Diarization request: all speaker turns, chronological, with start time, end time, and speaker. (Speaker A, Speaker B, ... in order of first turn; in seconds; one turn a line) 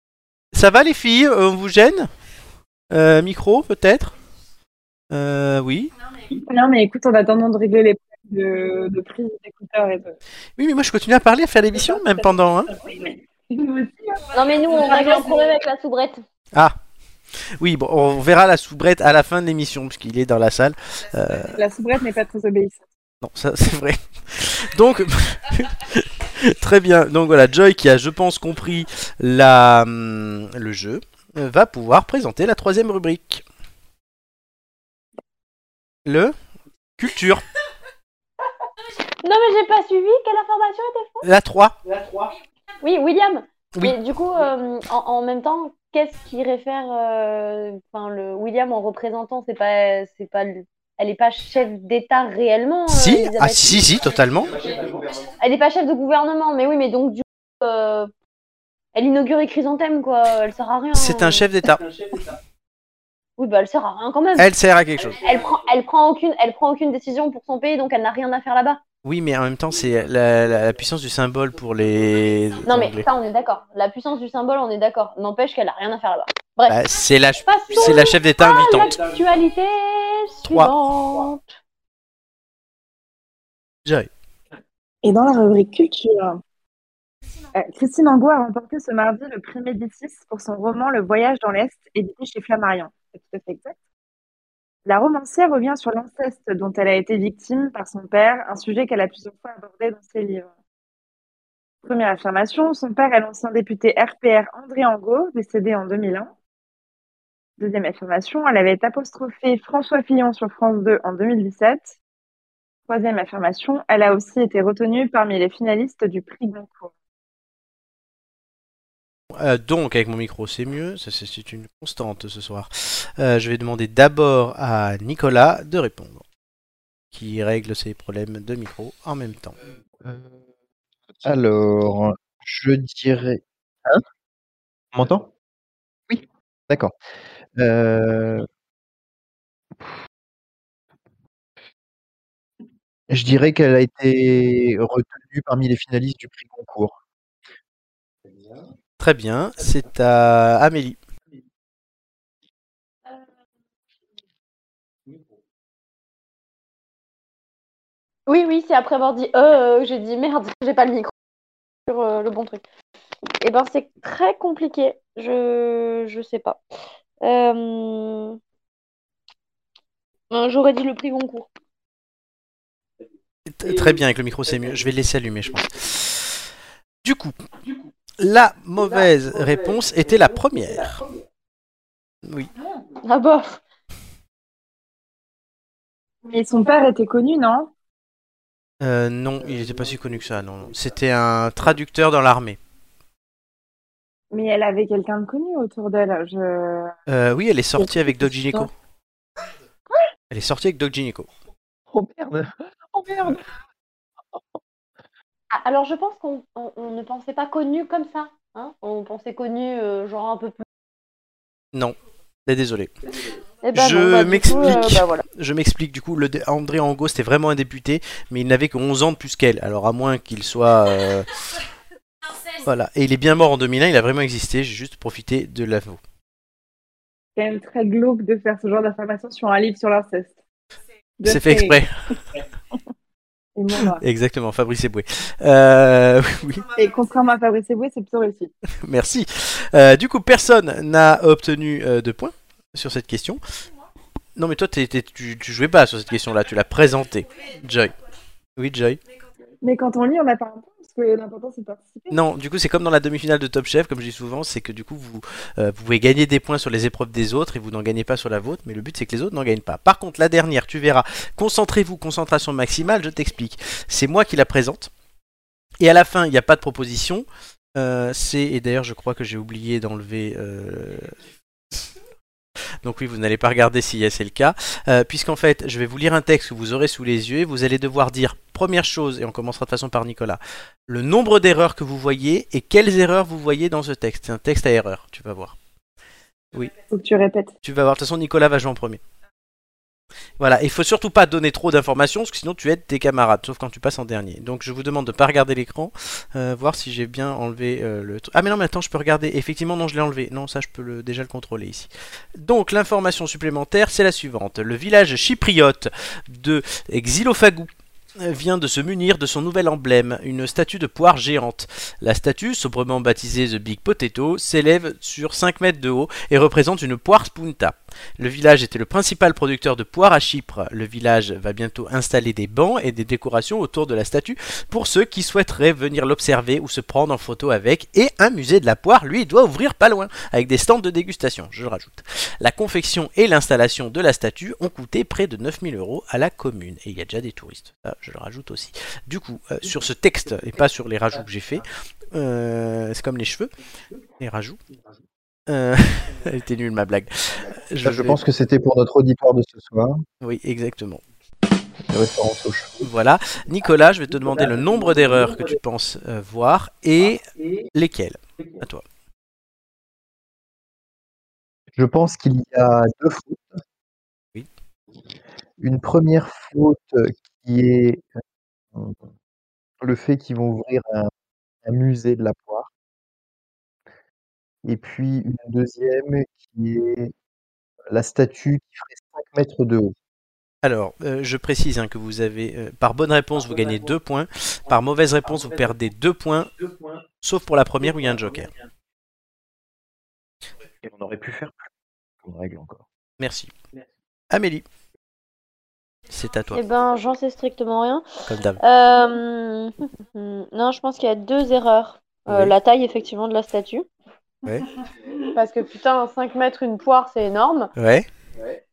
Speaker A: 0.5-2.1
Speaker A: 2.9-4.2
Speaker A: 5.1-5.9
Speaker B: 6.3-10.2
Speaker A: 10.6-12.7
Speaker B: 11.8-12.3
Speaker B: 12.8-15.5
Speaker C: 14.3-16.2
Speaker A: 17.6-21.6
Speaker B: 21.5-22.8
Speaker A: 23.2-33.4
Speaker A: 36.1-36.3
Speaker A: 37.0-37.5
Speaker C: 39.2-41.3
Speaker A: 41.2-41.8
Speaker D: 41.8-42.4
Speaker C: 42.8-54.0
Speaker A: 52.9-54.5
Speaker D: 54.4-55.3
Speaker C: 55.4-58.1
Speaker C: 59.0-61.4
Speaker A: 60.9-61.8
Speaker D: 61.6-62.4
Speaker C: 63.4-64.5
Speaker A: 64.4-65.2
Speaker C: 65.2-68.8
Speaker A: 69.0-73.1
Speaker D: 69.7-70.8
Speaker D: 71.6-72.6
Speaker C: 72.7-76.8
Speaker A: 76.7-79.0
Speaker C: 77.5-81.5
Speaker D: 77.7-79.4
Speaker A: 80.5-80.7
Speaker B: 85.0-86.4
Speaker B: 87.5-93.7
Speaker B: 94.9-100.5
Speaker B: 101.8-106.3
Speaker B: 107.6-111.9
Speaker B: 112.9-116.9
Speaker A: 119.3-126.2
Speaker A: 127.1-129.6
Speaker E: 130.0-130.4
Speaker E: 131.2-134.0
Speaker E: 134.9-135.3
Speaker E: 136.1-137.0
Speaker E: 137.6-138.5
Speaker E: 143.1-147.0
Speaker D: 148.2-148.7
Speaker A: 149.0-151.0
Speaker C: 158.3-161.1
Speaker C: 161.9-162.6
Speaker C: 163.4-166.6
Speaker C: 167.2-168.4
Speaker C: 170.3-171.5
Speaker D: 173.0-175.9
Speaker A: 173.6-176.4
Speaker A: 177.0-177.4
Speaker D: 177.6-177.9
Speaker A: 178.2-181.0
Speaker D: 178.8-181.3
Speaker A: 182.2-182.5
Speaker B: 182.6-182.8
Speaker C: 183.0-183.6
Speaker B: 186.2-187.7
Speaker A: 188.8-192.6
Speaker D: 189.4-191.0
Speaker B: 194.3-196.9
Speaker A: 197.1-198.7
Speaker B: 197.8-198.7
Speaker A: 200.3-201.3
Speaker E: 201.9-203.5
Speaker C: 205.5-210.6
Speaker A: 212.5-212.9
Speaker D: 213.1-213.4
Speaker C: 213.6-215.2
Speaker A: 213.7-221.4
Speaker A: 222.6-226.0
Speaker B: 227.4-230.3
Speaker B: 231.2-231.8
Speaker A: 231.2-231.9
Speaker B: 233.6-234.0
Speaker A: 233.8-236.7
Speaker B: 236.8-238.5
Speaker A: 238.8-243.4
Speaker A: 244.4-248.0
Speaker A: 248.6-249.0
Speaker B: 249.6-252.2
Speaker A: 252.1-264.9
Speaker A: 265.8-271.1
Speaker A: 272.8-285.6
Speaker B: 286.9-287.5
Speaker A: 287.6-289.0
Speaker A: 290.4-343.5
Speaker D: 339.6-340.6
Speaker D: 341.2-341.6
Speaker A: 344.2-344.6
Speaker A: 345.5-348.2
Speaker E: 347.8-350.0
Speaker A: 350.2-351.0
Speaker E: 351.9-352.9
Speaker A: 352.8-358.8
Speaker D: 354.1-355.6
Speaker D: 357.0-357.7
Speaker D: 358.4-358.6
Speaker E: 361.8-363.6
Speaker E: 365.6-368.1
Speaker E: 368.7-369.1
Speaker E: 369.8-371.1
Speaker E: 371.6-372.7
Speaker E: 374.6-377.1
Speaker E: 377.9-379.9
Speaker A: 380.6-386.5
Speaker D: 383.4-383.9
Speaker D: 384.7-385.8
Speaker D: 386.6-387.1
Speaker A: 387.2-388.5
Speaker D: 387.8-388.7
Speaker E: 390.8-391.6
Speaker E: 392.2-392.8
Speaker A: 393.2-393.5
Speaker A: 394.3-394.7
Speaker A: 396.1-396.6
Speaker C: 396.5-398.1
Speaker A: 398.3-398.6
Speaker C: 398.6-403.9
Speaker A: 402.3-402.5
Speaker C: 405.3-407.7
Speaker A: 407.8-408.1
Speaker D: 408.4-408.6